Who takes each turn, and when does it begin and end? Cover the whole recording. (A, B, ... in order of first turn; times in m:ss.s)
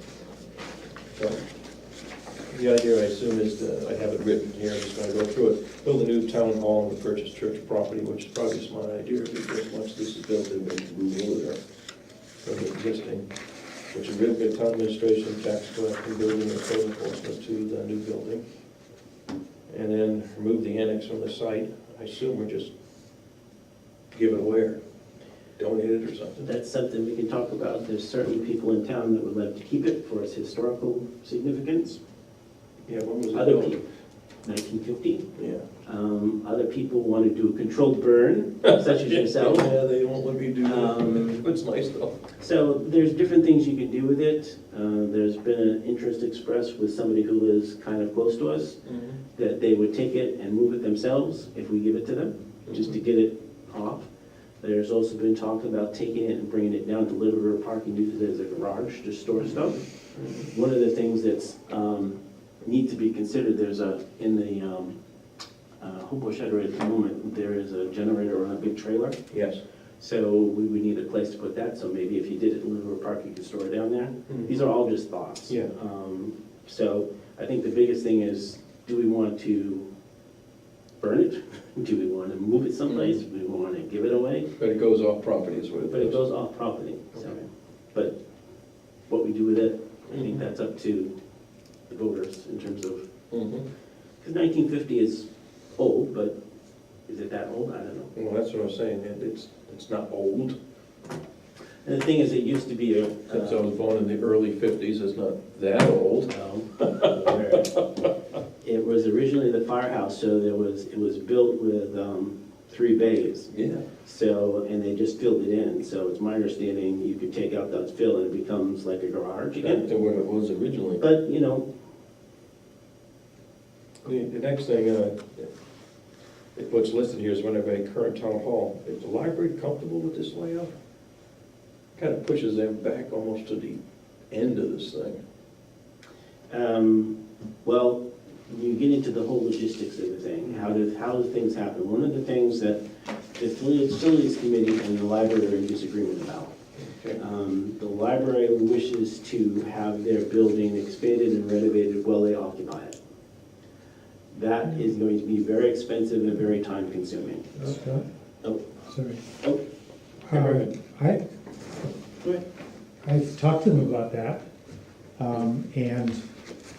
0:01.1-0:01.4 A
0:02.5-0:11.6 A
0:12.4-0:13.3 A
0:13.9-0:18.4 A
0:19.7-0:22.7 A
0:24.1-0:24.8 A
0:25.6-0:26.5 A
0:26.4-0:32.0 B
0:32.8-0:33.8 A
0:33.3-0:33.8 B
0:34.4-0:35.3 B
0:35.4-0:35.6 A
0:35.8-0:39.8 B
0:38.7-0:42.2 A
0:40.6-0:41.3 B
0:42.4-0:48.8 B
0:48.8-0:49.2 A
0:49.3-0:54.1 B
0:52.7-0:53.0 A
0:54.6-0:59.8 B
1:00.1-1:00.5 A
1:00.3-1:04.9 B
1:05.8-1:09.2 B
1:09.3-1:09.6 A
1:10.0-1:19.9 B
1:15.5-1:15.7 A
1:21.0-1:24.5 B
1:22.9-1:23.2 A
1:24.6-1:26.2 A
1:25.9-1:28.2 B
1:29.1-1:31.1 B
1:30.1-1:30.4 A
1:31.9-1:33.0 B
1:33.3-1:33.6 A
1:34.2-1:36.4 B
1:37.1-1:38.1 B
1:38.1-1:40.6 A
1:41.8-1:43.7 B
1:43.3-1:47.1 A
1:46.3-1:47.8 B
1:48.6-1:53.5 B
1:53.5-1:53.8 A
1:54.0-1:59.9 B
1:59.6-2:01.0 A
2:01.0-2:01.7 B
2:04.0-2:05.5 A
2:06.6-2:10.8 A
2:12.0-2:15.2 A
2:16.5-2:22.8 B
2:23.4-2:26.5 B
2:26.8-2:27.2 A
2:27.2-2:33.0 B
2:34.3-2:37.5 B
2:37.6-2:38.0 C
2:38.8-2:39.2 C
2:40.3-2:41.2 C
2:40.3-2:40.7 A
2:43.0-2:44.4 C
2:45.2-2:46.2 C